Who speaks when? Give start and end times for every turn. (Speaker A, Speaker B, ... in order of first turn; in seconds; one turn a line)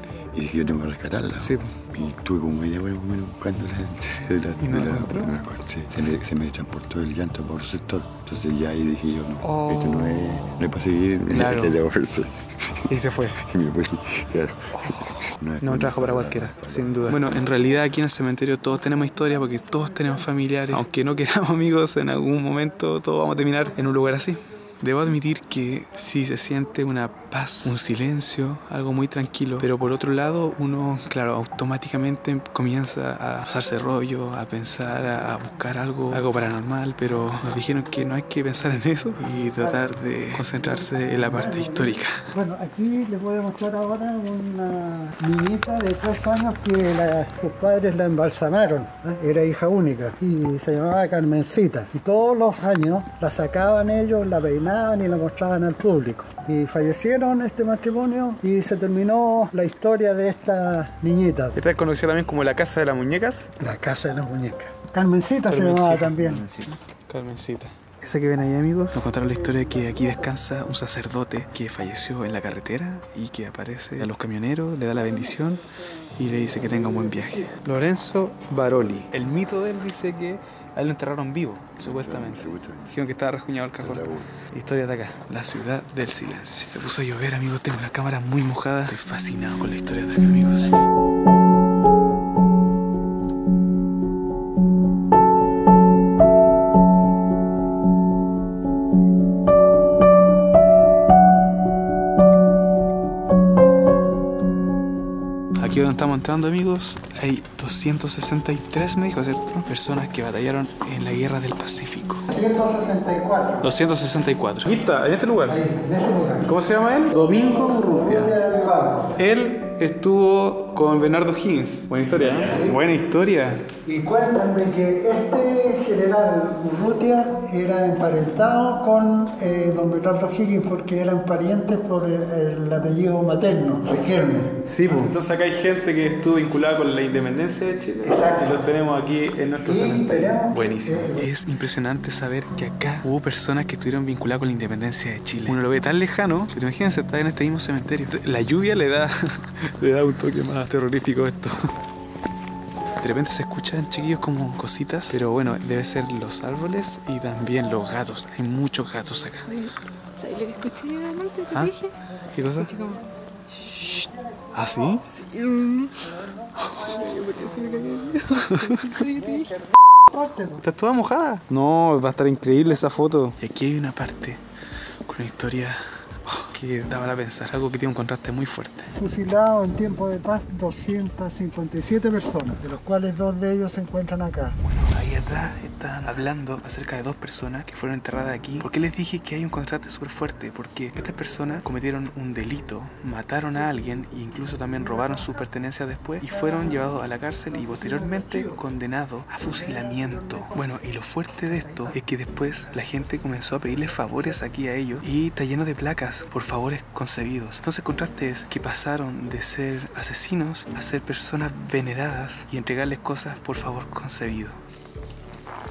Speaker A: 0.3-17.2
Speaker B: 1.4-1.7
Speaker B: 4.6-5.3
Speaker B: 9.4-10.4
Speaker B: 11.3-11.8
Speaker B: 12.9-13.4
Speaker B: 15.6-42.2
Speaker C: 39.5-39.8
Speaker C: 40.4-61.6
Speaker B: 61.5-63.5
Speaker C: 63.6-66.5
Speaker B: 65.5-66.2
Speaker B: 66.7-75.6
Speaker C: 69.8-70.2
Speaker B: 76.2-90.8
Speaker A: 81.8-83.0
Speaker A: 83.8-84.3
Speaker B: 105.6-112.3
Speaker C: 112.3-113.7
Speaker B: 113.6-115.6
Speaker C: 115.5-116.5
Speaker B: 116.4-118.4
Speaker C: 117.1-119.2
Speaker B: 119.2-123.6
Speaker C: 122.5-122.8
Speaker C: 123.8-135.1
Speaker B: 134.6-151.7
Speaker C: 138.0-138.7
Speaker C: 139.6-141.3
Speaker B: 153.0-159.7
Speaker D: 159.5-161.9
Speaker B: 162.3-162.7
Speaker D: 162.6-163.1
Speaker B: 163.8-165.1
Speaker D: 165.1-166.0
Speaker B: 166.6-169.0
Speaker D: 167.3-169.5
Speaker C: 170.1-170.6
Speaker B: 170.6-174.4
Speaker B: 175.1-178.9
Speaker C: 179.0-184.6
Speaker B: 184.6-214.6
Speaker C: 196.2-196.9
Speaker C: 197.7-198.6
Speaker C: 199.4-200.6
Speaker C: 201.5-201.9